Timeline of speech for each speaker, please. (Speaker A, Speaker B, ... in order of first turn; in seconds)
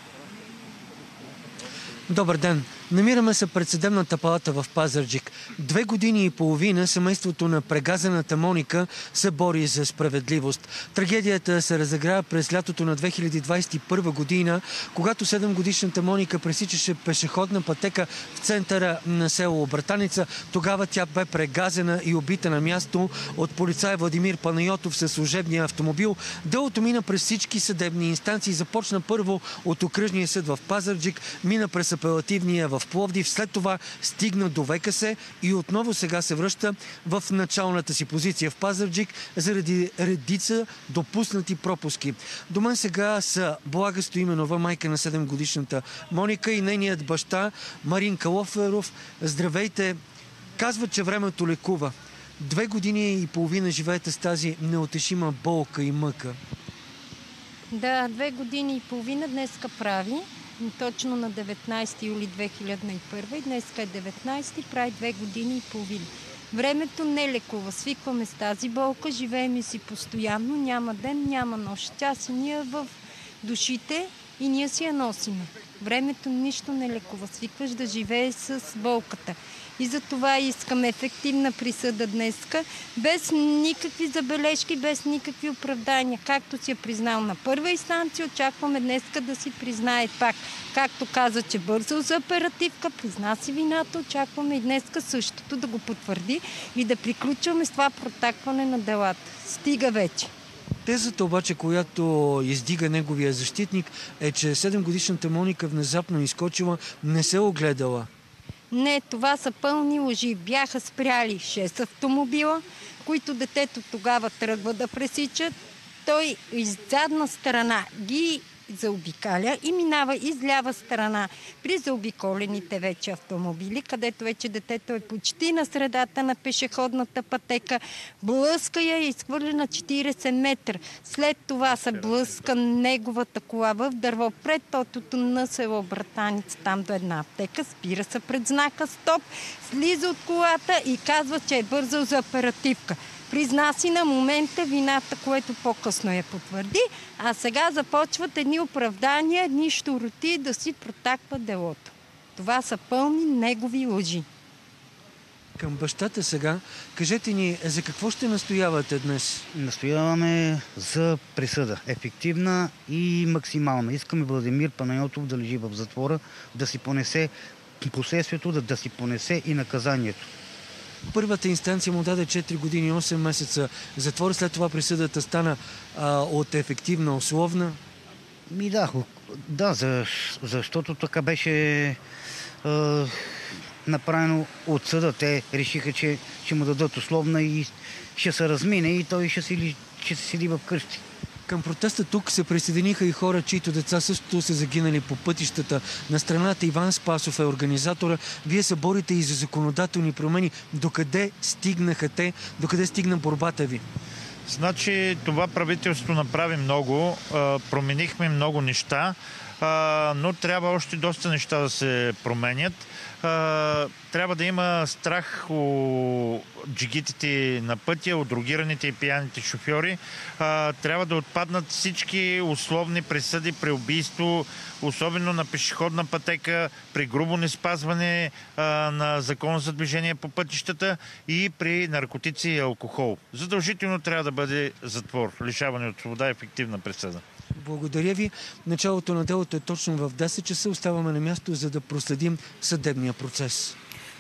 Speaker A: 2.1-50.0, 50.6-56.4, 100.8-108.1, 155.6-159.4, 171.1-177.8, 191.5-203.8, 237.6-243.8
Speaker B: 57.7-100.3, 108.7-115.5, 116.0-154.3
Speaker C: 159.5-170.3, 178.5-182.0, 182.6-191.0
Speaker D: 204.5-237.2